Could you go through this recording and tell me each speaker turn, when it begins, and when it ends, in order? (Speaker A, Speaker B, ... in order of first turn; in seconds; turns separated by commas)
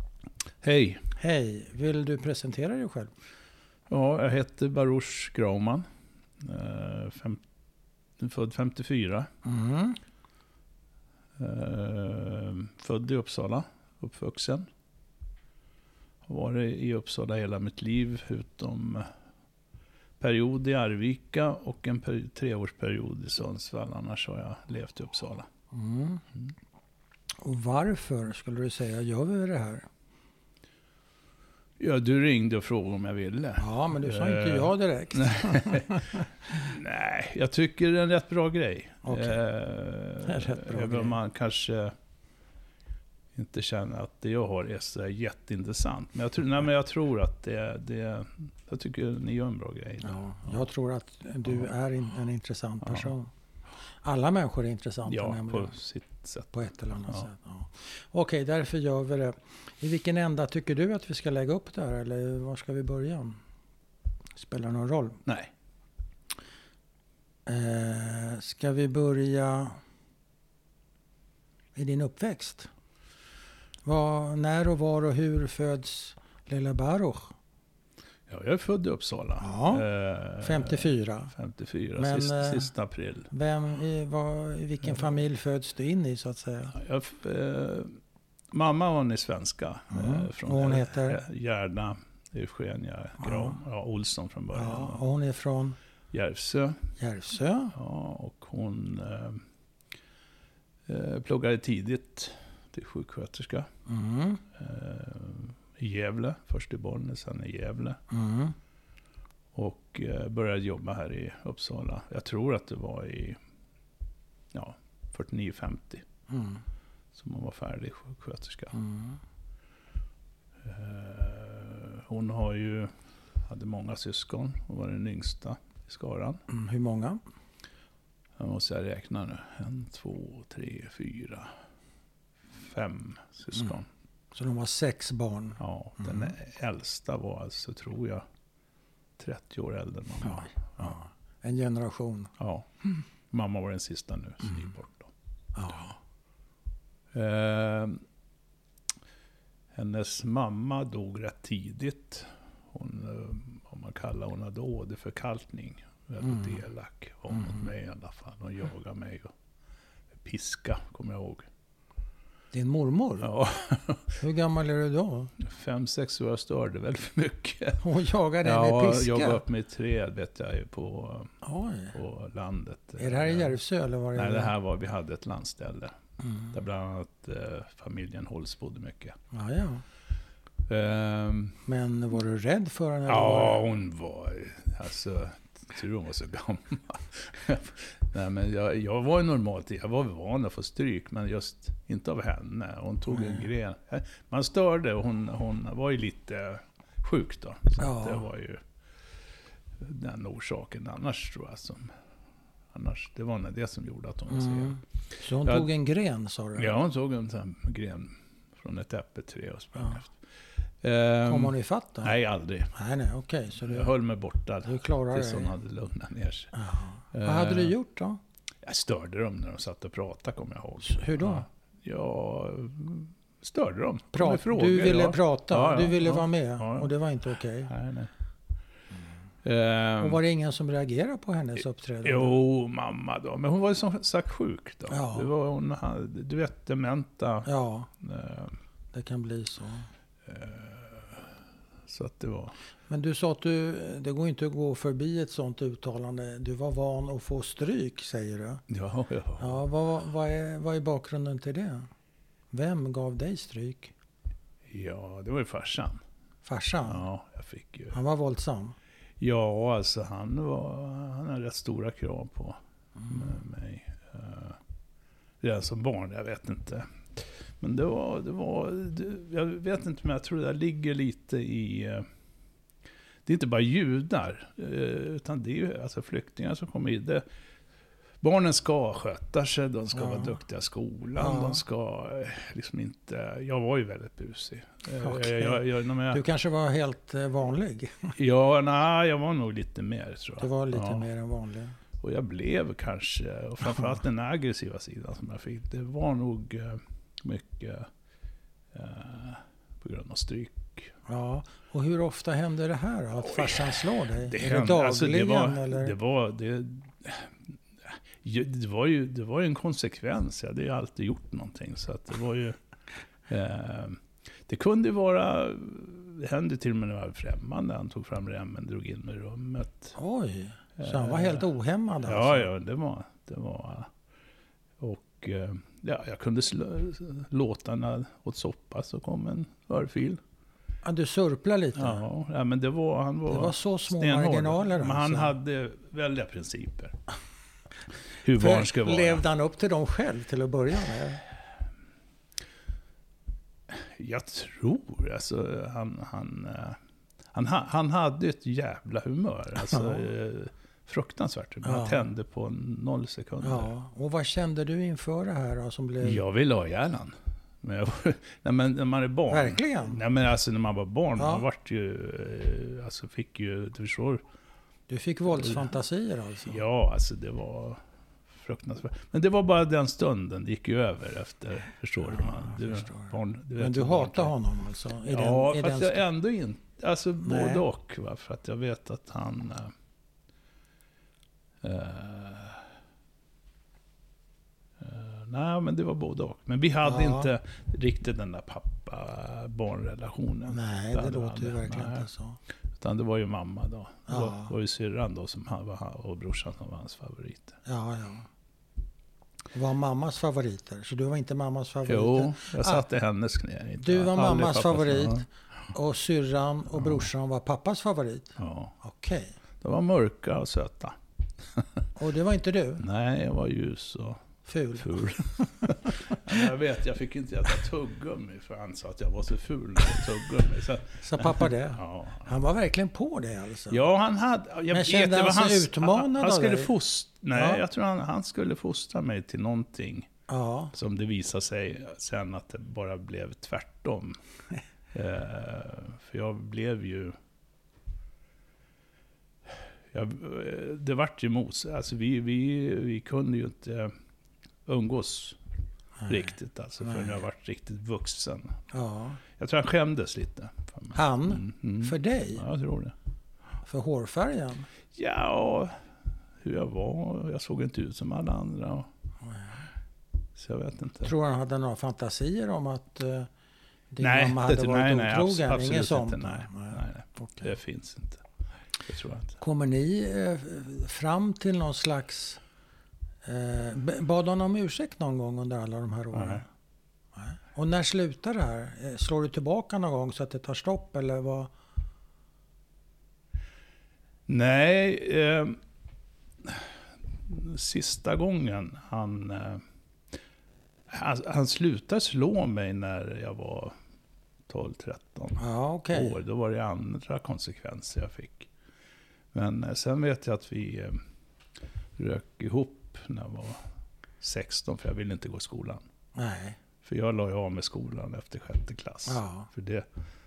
Speaker A: 0.6-1.1, Speaker B: 1.1-3.1, Speaker A: 3.9-5.9, Speaker A: 6.4-7.4, Speaker A: 8.2-9.3, Speaker B: 9.4-10.0, Speaker A: 11.4-14.7, Speaker A: 16.2-19.1, Speaker A: 20.2-25.5, Speaker B: 25.7-26.2, Speaker B: 27.4-29.9, Speaker A: 31.8-42.0, Speaker B: 33.6-36.8, Speaker B: 39.0-39.4, Speaker B: 40.2-41.2, Speaker A: 43.3-50.7, Speaker B: 50.0-53.3, Speaker A: 52.8-53.1, Speaker B: 54.0-55.7, Speaker A: 55.0-57.3, Speaker B: 56.5-63.4, Speaker B: 64.4-65.2, Speaker A: 65.3-65.5, Speaker B: 67.5-69.8, Speaker B: 71.8-72.7, Speaker B: 73.8-77.3, Speaker A: 78.3-83.3, Speaker B: 79.4-79.9, Speaker B: 80.4-81.3, Speaker B: 82.0-82.7, Speaker B: 83.3-86.8, Speaker A: 86.7-88.0, Speaker A: 88.5-95.0, Speaker B: 89.9-91.2, Speaker B: 93.2-93.6, Speaker B: 94.5-95.8, Speaker A: 96.1-96.8, Speaker B: 97.0-97.8, Speaker A: 97.7-99.4, Speaker A: 100.9-103.7, Speaker B: 103.9-104.4, Speaker A: 104.5-108.0, Speaker B: 108.1-108.6, Speaker A: 109.5-113.4, Speaker A: 114.5-116.0, Speaker B: 116.3-116.6, Speaker A: 117.1-118.8, Speaker B: 118.7-119.2, Speaker A: 120.6-122.9, Speaker A: 123.4-126.4, Speaker B: 126.5-127.2, Speaker A: 128.4-131.5, Speaker A: 132.5-133.9, Speaker B: 134.3-136.3, Speaker A: 135.6-138.3, Speaker A: 139.2-140.9, Speaker B: 140.2-142.3, Speaker A: 142.4-142.7, Speaker A: 143.3-145.1, Speaker B: 145.6-146.0, Speaker A: 147.1-148.0, Speaker A: 149.7-159.3, Speaker B: 156.2-156.6, Speaker B: 157.3-157.7, Speaker A: 160.2-161.5, Speaker B: 162.5-163.3, Speaker A: 163.2-164.2, Speaker B: 164.2-165.3, Speaker A: 165.4-167.8, Speaker B: 167.8-169.4, Speaker A: 168.4-171.3, Speaker B: 171.4-171.9, Speaker A: 171.9-173.6, Speaker B: 173.0-174.5, Speaker A: 174.1-176.0, Speaker B: 176.2-176.5, Speaker A: 176.5-179.2, Speaker B: 179.3-179.8, Speaker A: 180.7-181.6, Speaker B: 181.7-183.7, Speaker A: 183.1-198.6, Speaker B: 193.1-193.5, Speaker B: 197.8-198.3, Speaker A: 199.8-201.9, Speaker A: 202.7-204.8, Speaker B: 204.3-206.8, Speaker A: 205.4-205.7, Speaker A: 206.6-210.2, Speaker A: 210.8-212.7, Speaker B: 211.2-212.2, Speaker B: 212.8-213.9, Speaker A: 213.6-216.5, Speaker B: 214.6-215.5, Speaker B: 216.5-218.2, Speaker A: 217.1-217.7, Speaker A: 218.6-226.9, Speaker B: 220.8-221.5, Speaker B: 224.1-227.7, Speaker A: 227.7-228.1, Speaker A: 229.4-230.2, Speaker B: 230.0-232.4, Speaker A: 232.0-237.5, Speaker B: 234.9-235.3, Speaker B: 237.5-237.9, Speaker A: 238.0-238.6, Speaker B: 238.9-239.9, Speaker A: 240.2-242.6, Speaker B: 242.9-248.6, Speaker A: 248.7-249.6, Speaker B: 249.4-251.9, Speaker B: 252.5-253.9, Speaker A: 254.7-256.0, Speaker B: 256.4-257.1, Speaker A: 256.9-258.0, Speaker B: 257.9-258.8, Speaker A: 259.2-262.6, Speaker A: 263.1-264.6, Speaker A: 265.4-272.1, Speaker A: 273.2-277.2, Speaker A: 278.2-286.2, Speaker B: 279.9-280.3, Speaker B: 281.2-281.6, Speaker B: 285.0-288.1, Speaker A: 288.2-291.1, Speaker B: 290.4-291.8, Speaker A: 292.0-297.9, Speaker B: 293.6-294.0, Speaker A: 298.7-300.9, Speaker B: 301.1-305.9, Speaker A: 303.2-312.6, Speaker A: 313.3-319.9, Speaker B: 320.0-322.5, Speaker A: 320.8-321.5, Speaker A: 322.0-323.9, Speaker A: 324.8-330.2, Speaker B: 330.8-332.0, Speaker A: 331.8-337.0, Speaker B: 333.3-335.3, Speaker A: 338.2-339.2, Speaker B: 338.3-341.2, Speaker A: 343.7-346.8, Speaker A: 347.3-353.7, Speaker B: 349.6-350.0, Speaker B: 351.6-352.0, Speaker B: 353.4-356.2, Speaker A: 356.0-364.2, Speaker B: 359.3-360.0, Speaker B: 361.2-361.5, Speaker B: 364.9-366.6, Speaker A: 365.4-365.7, Speaker A: 366.5-367.8, Speaker A: 368.3-374.3, Speaker B: 372.0-376.0, Speaker A: 375.1-379.7, Speaker B: 377.2-377.6, Speaker A: 381.6-382.7, Speaker A: 384.8-392.1, Speaker B: 386.9-387.3, Speaker B: 390.5-392.4, Speaker A: 392.7-397.6, Speaker B: 394.1-394.5, Speaker B: 397.7-398.3, Speaker B: 399.5-402.8, Speaker A: 401.9-405.3, Speaker B: 403.8-409.3, Speaker A: 406.8-407.1, Speaker A: 408.4-408.8, Speaker A: 409.6-411.8, Speaker B: 412.0-412.8, Speaker A: 412.8-414.2, Speaker B: 414.4-416.4, Speaker A: 414.8-422.3, Speaker B: 421.0-423.9, Speaker A: 423.7-430.1, Speaker B: 424.7-426.7, Speaker B: 427.4-427.6, Speaker B: 430.3-430.7, Speaker A: 430.7-434.2, Speaker A: 434.9-437.2, Speaker A: 439.5-443.9, Speaker A: 444.7-445.4, Speaker B: 446.0-447.2, Speaker A: 446.1-448.6, Speaker B: 448.7-449.2, Speaker A: 449.4-452.9, Speaker B: 450.9-452.4, Speaker B: 453.6-454.7, Speaker A: 454.9-455.7, Speaker A: 456.4-458.9, Speaker B: 459.2-459.6, Speaker A: 460.4-461.1, Speaker B: 461.0-463.3, Speaker B: 463.9-467.5, Speaker A: 464.0-468.2, Speaker A: 468.9-469.4, Speaker B: 469.4-472.4, Speaker B: 473.2-476.5, Speaker A: 476.1-476.4, Speaker B: 477.2-481.5, Speaker A: 484.3-485.6, Speaker A: 486.4-489.6, Speaker A: 490.9-493.8, Speaker A: 494.5-495.4, Speaker B: 495.4-496.2, Speaker A: 495.9-498.5, Speaker A: 499.3-501.0, Speaker A: 502.0-503.7, Speaker A: 504.2-505.9, Speaker B: 506.2-506.6, Speaker A: 506.8-509.9, Speaker B: 509.1-509.5